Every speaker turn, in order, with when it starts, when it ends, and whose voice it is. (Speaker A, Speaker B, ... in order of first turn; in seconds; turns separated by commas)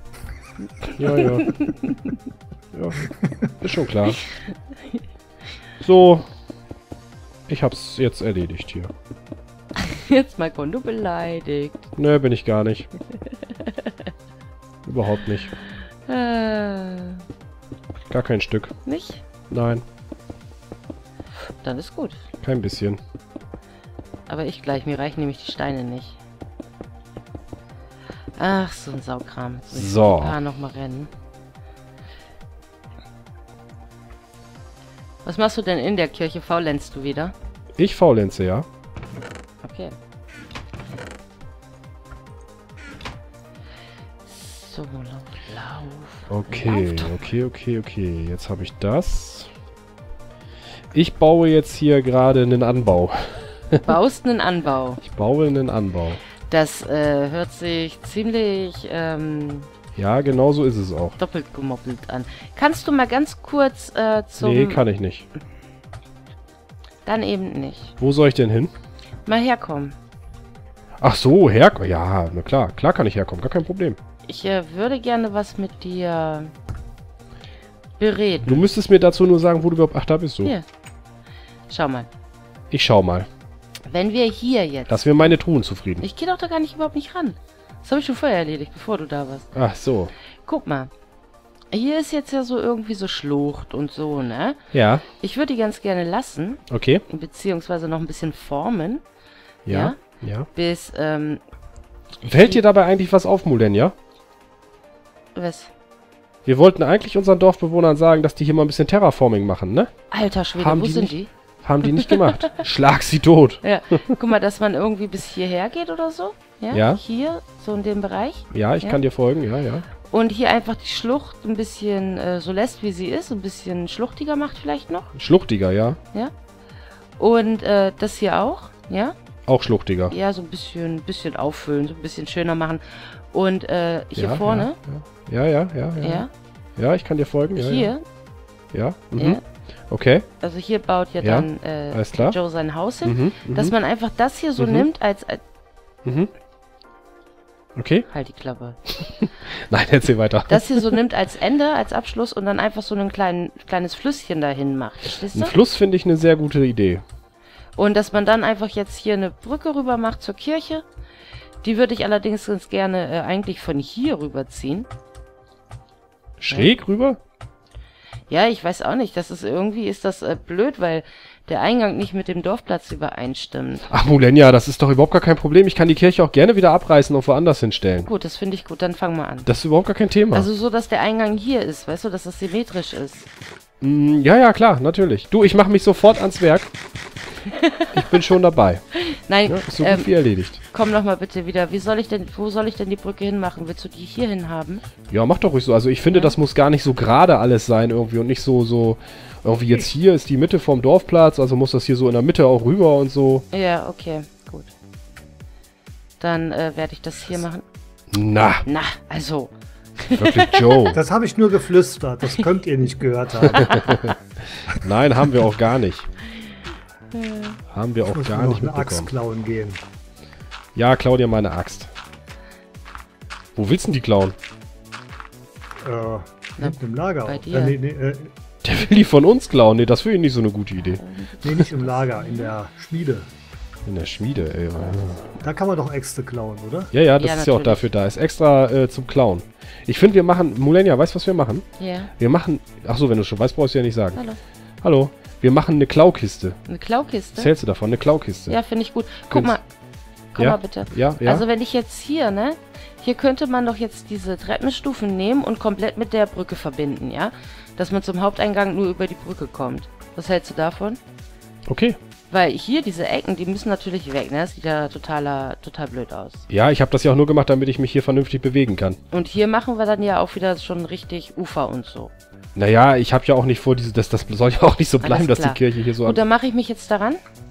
Speaker A: 0.6-2.1, Speaker B: 1.0-1.5, Speaker B: 2.7-4.2, Speaker B: 5.8-6.3, Speaker B: 7.5-8.9, Speaker A: 9.8-11.8, Speaker B: 12.0-12.9, Speaker A: 13.6-13.9, Speaker B: 14.9-15.5, Speaker A: 16.1-17.2, Speaker B: 18.1-18.7, Speaker A: 18.9-19.2, Speaker B: 19.5-19.8, Speaker A: 21.6-22.2, Speaker B: 22.4-23.0, Speaker A: 24.3-26.2, Speaker A: 28.4-31.1, Speaker B: 29.7-30.4, Speaker A: 35.2-37.3, Speaker B: 37.8-38.7, Speaker A: 39.6-40.0, Speaker A: 44.2-47.3, Speaker B: 46.3-49.5, Speaker B: 50.9-53.9, Speaker A: 53.8-55.0, Speaker B: 55.0-56.2, Speaker A: 56.5-59.7, Speaker B: 60.0-61.2, Speaker A: 61.2-64.8, Speaker B: 64.4-65.3, Speaker A: 67.0-67.9, Speaker B: 68.0-68.7, Speaker A: 69.3-70.0, Speaker B: 71.0-74.0, Speaker A: 74.3-76.5, Speaker A: 78.0-78.7, Speaker B: 78.5-80.5, Speaker A: 81.7-82.1, Speaker B: 82.7-83.3, Speaker A: 83.9-85.3, Speaker B: 84.9-86.1, Speaker A: 86.0-89.5, Speaker B: 89.5-90.1, Speaker A: 90.4-90.9, Speaker A: 91.7-94.6, Speaker B: 94.7-95.1, Speaker A: 95.2-99.0, Speaker B: 96.7-97.0, Speaker A: 99.7-100.0, Speaker B: 99.7-100.5, Speaker A: 100.5-101.4, Speaker A: 102.2-102.6, Speaker B: 102.3-104.0, Speaker A: 105.3-105.7, Speaker B: 106.5-109.9, Speaker A: 110.1-111.3, Speaker B: 110.6-113.6, Speaker A: 111.8-112.2, Speaker A: 113.6-119.0, Speaker B: 116.7-117.0, Speaker B: 118.5-119.9, Speaker A: 120.0-125.1, Speaker B: 125.2-126.0, Speaker A: 127.2-129.2, Speaker B: 129.5-130.2, Speaker A: 130.1-134.8, Speaker B: 134.2-136.2, Speaker A: 136.0-136.3, Speaker B: 136.8-137.9, Speaker A: 137.6-138.0, Speaker B: 138.7-140.3, Speaker A: 139.2-139.4, Speaker A: 140.4-145.4, Speaker B: 141.2-142.4, Speaker B: 143.0-143.7, Speaker B: 144.6-144.9, Speaker B: 146.1-146.3, Speaker B: 147.8-148.1, Speaker A: 148.1-148.8, Speaker B: 148.9-151.0, Speaker A: 150.5-155.6, Speaker B: 155.3-157.0, Speaker A: 157.8-160.8, Speaker A: 161.6-164.9, Speaker B: 166.4-167.2, Speaker A: 168.3-173.9, Speaker B: 173.9-178.1, Speaker A: 178.1-179.5, Speaker B: 179.5-180.5, Speaker A: 180.3-183.3, Speaker B: 183.8-186.7, Speaker A: 187.5-187.9, Speaker B: 187.9-188.8, Speaker A: 189.0-194.8, Speaker B: 189.4-190.6, Speaker B: 195.1-203.5, Speaker A: 196.1-196.4, Speaker A: 203.5-204.7, Speaker A: 206.2-207.7, Speaker B: 208.1-208.7, Speaker A: 208.7-211.0, Speaker B: 210.1-211.0, Speaker C: 211.0-214.0, Speaker A: 213.5-214.1, Speaker B: 213.6-214.1, Speaker B: 214.8-216.1, Speaker A: 217.1-217.6, Speaker B: 217.7-219.1, Speaker C: 218.0-219.8, Speaker B: 220.8-221.9, Speaker B: 223.6-224.3, Speaker C: 225.8-228.3, Speaker A: 226.6-227.8, Speaker B: 228.6-231.0, Speaker A: 230.8-232.5, Speaker C: 231.4-233.3, Speaker B: 233.9-235.3, Speaker A: 234.8-235.2, Speaker C: 235.4-236.9, Speaker B: 236.9-241.7, Speaker A: 237.2-237.9, Speaker A: 241.8-242.1, Speaker B: 242.2-244.2, Speaker B: 244.8-246.6, Speaker A: 246.7-247.5, Speaker B: 247.3-248.6, Speaker A: 248.5-249.6, Speaker B: 249.3-249.6, Speaker A: 250.3-261.0, Speaker B: 250.4-251.5, Speaker B: 261.7-262.0, Speaker A: 262.3-266.4, Speaker B: 266.5-269.0, Speaker A: 269.1-272.1, Speaker B: 272.6-276.2, Speaker A: 275.0-277.2